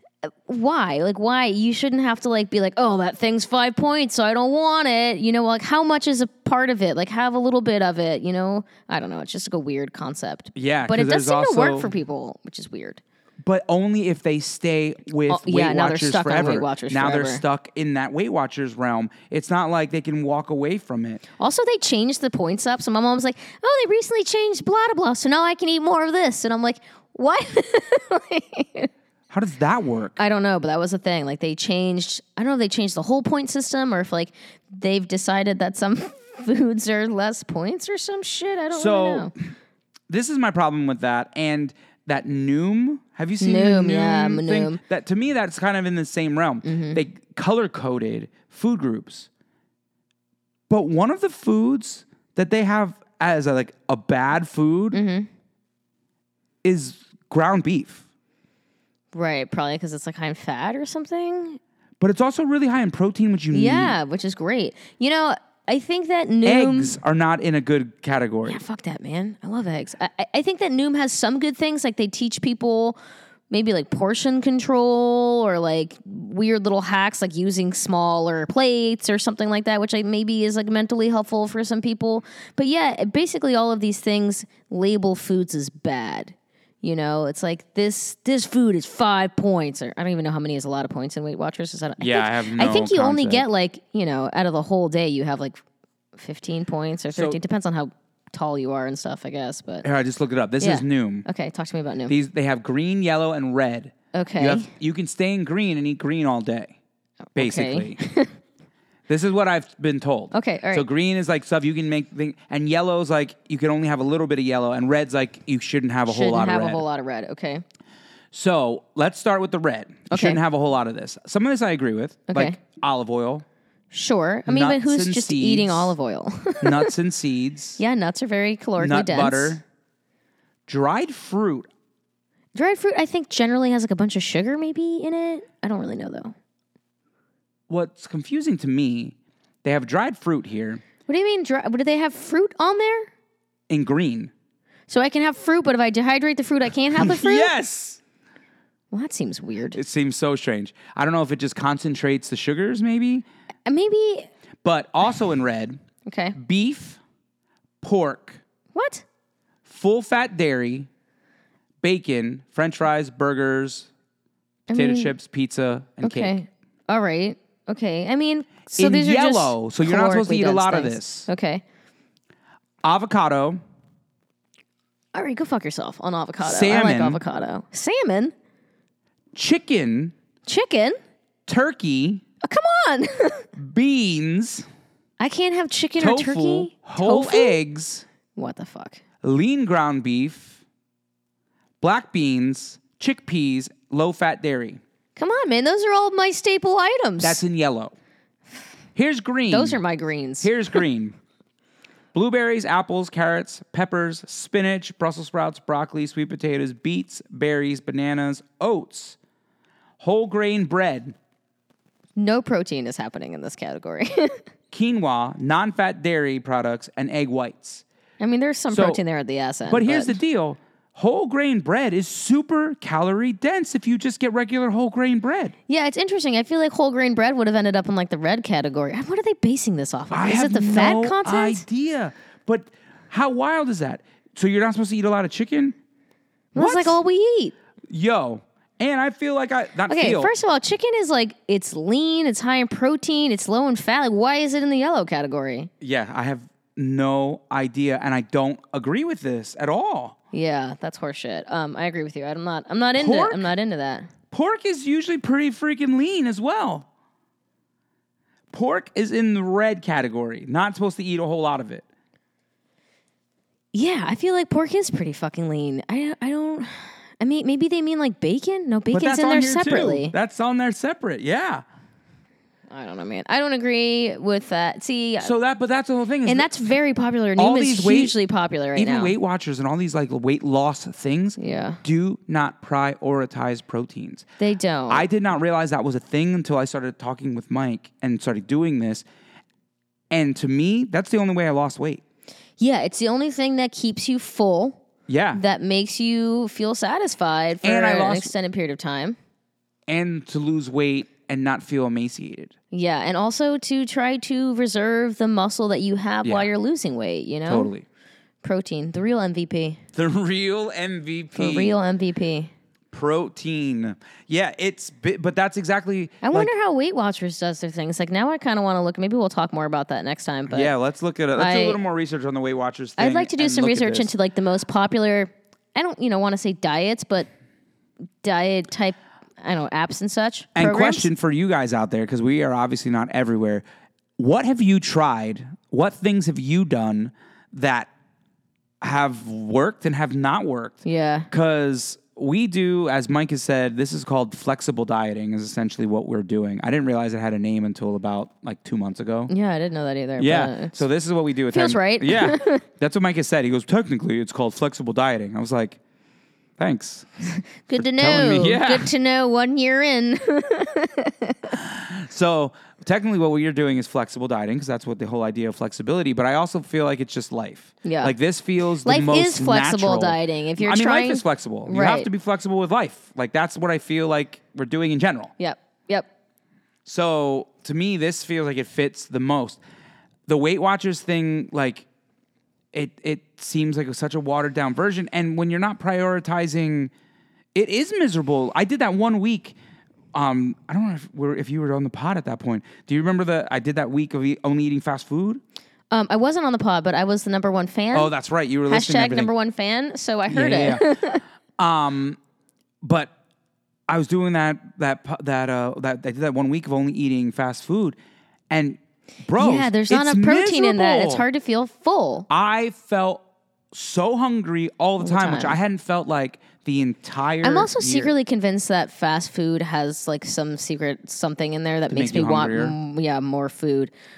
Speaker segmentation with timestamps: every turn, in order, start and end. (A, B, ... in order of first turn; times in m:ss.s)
0:00.2-0:13.0 A
0:10.6-0:11.9 B
0:13.4-0:21.2 B
0:15.3-0:17.4 A
0:21.4-0:28.9 A
0:29.3-0:30.2 B
0:30.2-0:39.3 A
0:38.7-0:39.5 B
0:40.1-0:49.3 B
0:43.4-0:44.8 A
0:46.6-0:47.0 A
0:50.7-0:55.0 B
0:54.9-0:55.3 A
0:56.6-0:58.0 B
0:59.1-1:01.6 A
1:02.0-1:04.0 B
1:03.5-1:07.0 A
1:06.4-1:08.6 B
1:08.5-1:13.0 A
1:13.5-1:35.6 A
1:32.0-1:33.4 B
1:36.2-1:39.9 A
1:37.1-1:37.4 B
1:39.8-1:41.3 B
1:40.6-1:42.2 A
1:42.1-1:46.8 B
1:44.1-1:44.7 A
1:47.3-1:48.4 A
1:47.4-1:48.0 B
1:49.1-1:56.8 B
1:50.3-1:50.9 A
1:56.1-1:57.6 A
1:58.3-2:03.4 B
2:00.1-2:00.4 A
2:02.3-2:02.6 A
2:03.9-2:06.9 A
2:04.5-2:06.0 B
2:06.6-2:07.8 B
2:07.8-2:09.6 A
2:08.8-2:09.6 B
2:10.7-2:11.7 B
2:12.6-2:16.4 A
2:17.7-2:20.8 B
2:21.1-2:23.1 A
2:23.7-2:24.3 B
2:24.9-2:27.5 A
2:27.0-2:28.0 B
2:28.9-2:29.8 A
2:29.7-2:33.2 B
2:33.7-2:34.3 A
2:34.6-2:35.8 B
2:36.1-2:36.4 A
2:36.4-2:37.0 B
2:37.8-2:38.4 B
2:38.7-2:39.0 A
2:39.7-2:40.9 B
2:41.8-2:43.9 B
2:44.7-2:45.1 A
2:44.7-2:46.4 B
2:46.0-2:51.6 A
2:48.7-2:51.3 B
2:52.8-2:53.6 B
2:55.1-2:58.3 A
2:56.4-2:57.2 B
2:59.3-3:00.1 B
3:00.5-3:01.0 A
3:01.5-3:02.2 B
3:02.4-3:03.5 A
3:03.6-3:04.7 B
3:05.2-3:07.6 A
3:06.0-3:08.1 B
3:08.4-3:09.0 A
3:09.2-3:10.6 B
3:11.8-3:14.8 B
3:15.2-3:17.4 A
3:17.2-3:17.9 B
3:19.0-3:19.8 B
3:19.5-3:20.8 A
3:20.4-3:21.2 B
3:22.1-3:29.2 B
3:30.0-3:31.2 B
3:32.2-3:34.4 A
3:34.7-3:37.8 B
3:38.2-3:40.2 A
3:38.7-3:39.0 B
3:39.7-3:45.6 B
3:45.7-3:51.6 A
3:50.1-3:55.8 B
3:56.6-3:57.5 A
3:56.6-3:57.0 B
3:57.9-4:00.3 B
3:59.9-4:05.7 A
4:05.8-4:10.2 B
4:10.3-4:14.1 A
4:13.0-4:13.4 B
4:14.3-4:16.9 B
4:18.5-4:21.8 B
4:23.7-4:30.1 A
4:28.9-4:31.6 B
4:32.7-4:35.3 A
4:35.2-4:36.5 B
4:36.2-4:39.2 A
4:37.4-4:38.2 B
4:38.8-4:44.2 B
4:41.4-4:41.8 A
4:44.4-4:45.0 A
4:44.9-4:49.0 B
4:50.1-4:52.0 B
4:52.6-4:54.8 A
4:55.1-4:55.4 B
4:55.3-4:59.2 A
4:57.6-4:58.3 B
4:59.9-5:02.5 B
5:02.7-5:07.7 A
5:06.2-5:06.5 B
5:07.5-5:07.8 B
5:08.4-5:09.8 A
5:10.0-5:11.8 B
5:11.3-5:12.5 A
5:12.9-5:16.5 B
5:16.2-5:20.7 A
5:20.5-5:24.1 B
5:21.4-5:21.8 A
5:23.0-5:27.3 A
5:28.2-5:31.1 A
5:30.6-5:33.6 B
5:34.2-5:37.9 B
5:38.8-5:40.8 B
5:40.8-5:41.3 A
5:41.3-5:49.3 B
5:49.3-5:50.8 A
5:50.2-5:55.8 B
5:51.5-5:52.6 A
5:56.6-5:57.1 B
5:57.2-6:01.6 A
5:57.8-5:58.9 B
6:01.6-6:15.3 B
6:07.8-6:08.2 A
6:08.8-6:12.1 A
6:15.4-6:16.1 A
6:16.8-6:19.6 B
6:20.3-6:21.9 B
6:22.7-6:26.9 B
6:27.5-6:29.6 B
6:30.1-6:35.4 B
6:35.9-6:38.1 A
6:37.9-6:39.3 B
6:38.7-6:41.2 A
6:40.3-6:41.0 B
6:41.6-6:42.2 B
6:42.8-6:43.1 B
6:43.9-6:48.0 B
6:48.5-6:51.2 B
6:49.4-6:52.3 A
6:52.3-6:58.1 B
6:55.0-6:55.6 A
6:57.4-7:03.9 A
7:01.9-7:02.8 B